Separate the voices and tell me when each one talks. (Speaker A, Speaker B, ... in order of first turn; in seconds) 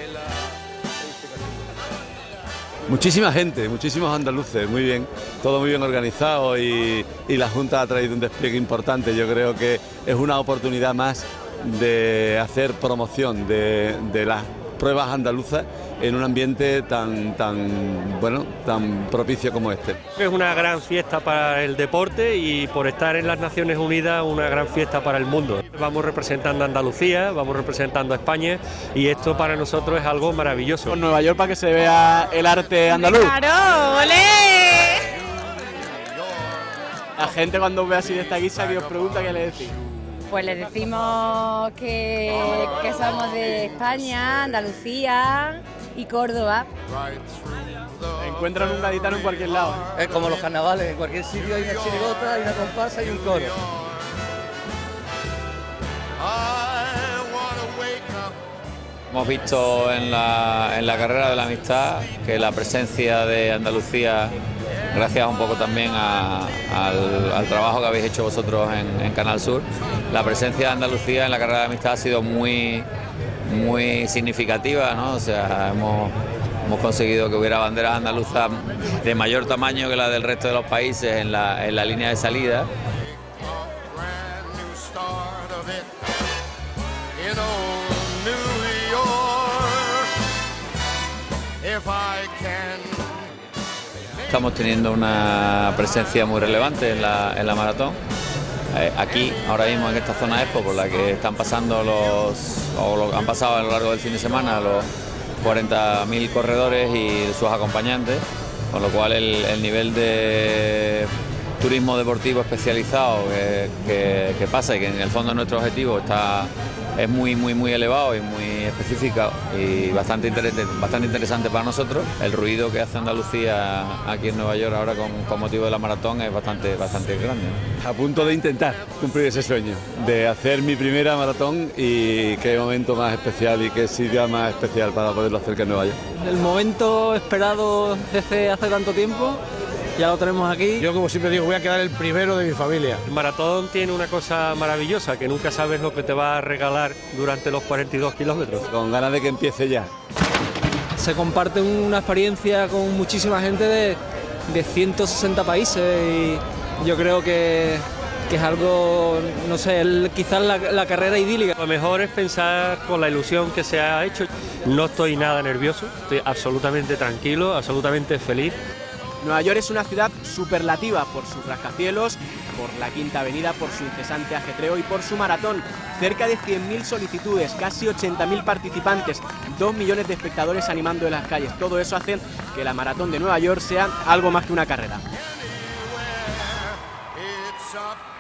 Speaker A: 2.9-20.0, 127.8-136.0, 148.7-149.9
Speaker B: 20.2-30.9, 143.1-148.7, 161.6-168.6
Speaker C: 30.9-33.4, 37.2-39.8, 48.0-49.9, 169.2-185.1
Speaker D: 32.9-35.2, 40.3-46.7
Speaker E: 50.0-53.5, 187.5-187.8
Speaker F: 59.1-64.3, 64.9-72.9, 73.5-82.7, 94.3-98.0, 98.7-104.9, 105.4-127.6
Speaker G: 136.2-139.4, 140.0-140.8, 151.0-161.5
Speaker H: 140.8-143.0